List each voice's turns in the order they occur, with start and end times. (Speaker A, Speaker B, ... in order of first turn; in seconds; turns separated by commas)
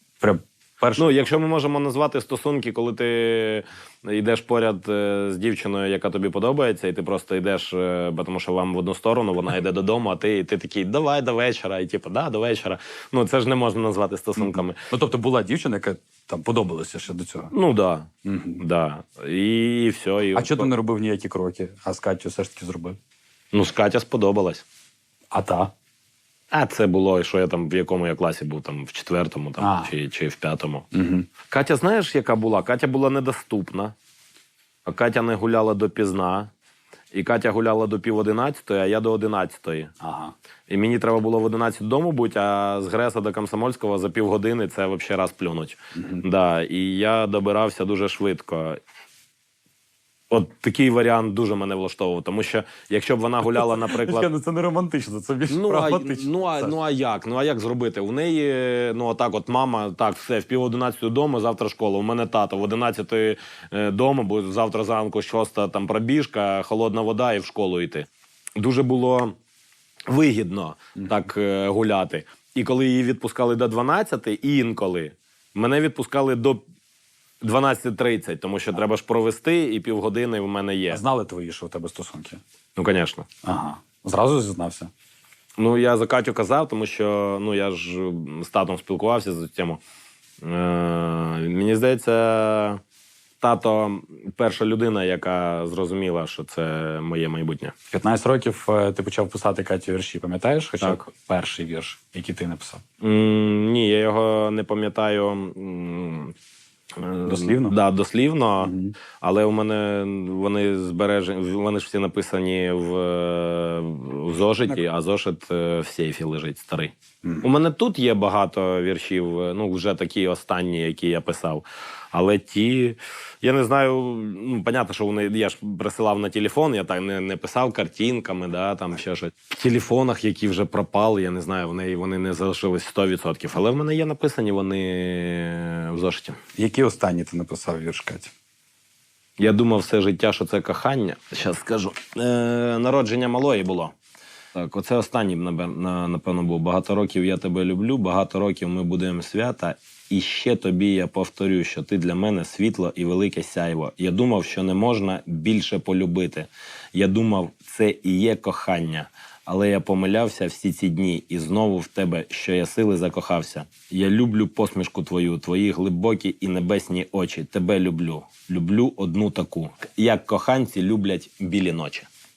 Speaker A: 0.2-1.2, Speaker B: 0.9-14.8, Speaker A: 14.4-17.5, Speaker B: 17.5-20.7, Speaker A: 18.2-18.6, Speaker A: 20.3-23.0, Speaker B: 23.5-24.6, Speaker A: 25.3-25.7, Speaker B: 26.5-30.9, Speaker A: 29.6-29.9, Speaker A: 30.9-31.3, Speaker B: 31.5-33.9, Speaker B: 34.9-36.5, Speaker B: 37.1-39.9, Speaker A: 40.0-40.3, Speaker B: 40.7-48.8, Speaker A: 45.9-46.2, Speaker B: 50.3-54.3, Speaker A: 53.4-56.7, Speaker B: 55.5-69.3, Speaker B: 70.1-76.6, Speaker A: 71.0-71.2, Speaker B: 77.4-81.0, Speaker A: 80.9-82.4, Speaker B: 82.8-83.3, Speaker A: 83.4-84.9, Speaker B: 85.6-89.8, Speaker B: 90.4-92.8, Speaker B: 93.4-97.7, Speaker A: 97.9-102.8, Speaker B: 103.0-106.3, Speaker B: 107.0-136.4, Speaker A: 107.2-107.8, Speaker A: 108.6-108.9, Speaker A: 136.6-138.3, Speaker B: 139.4-143.9, Speaker B: 144.5-172.1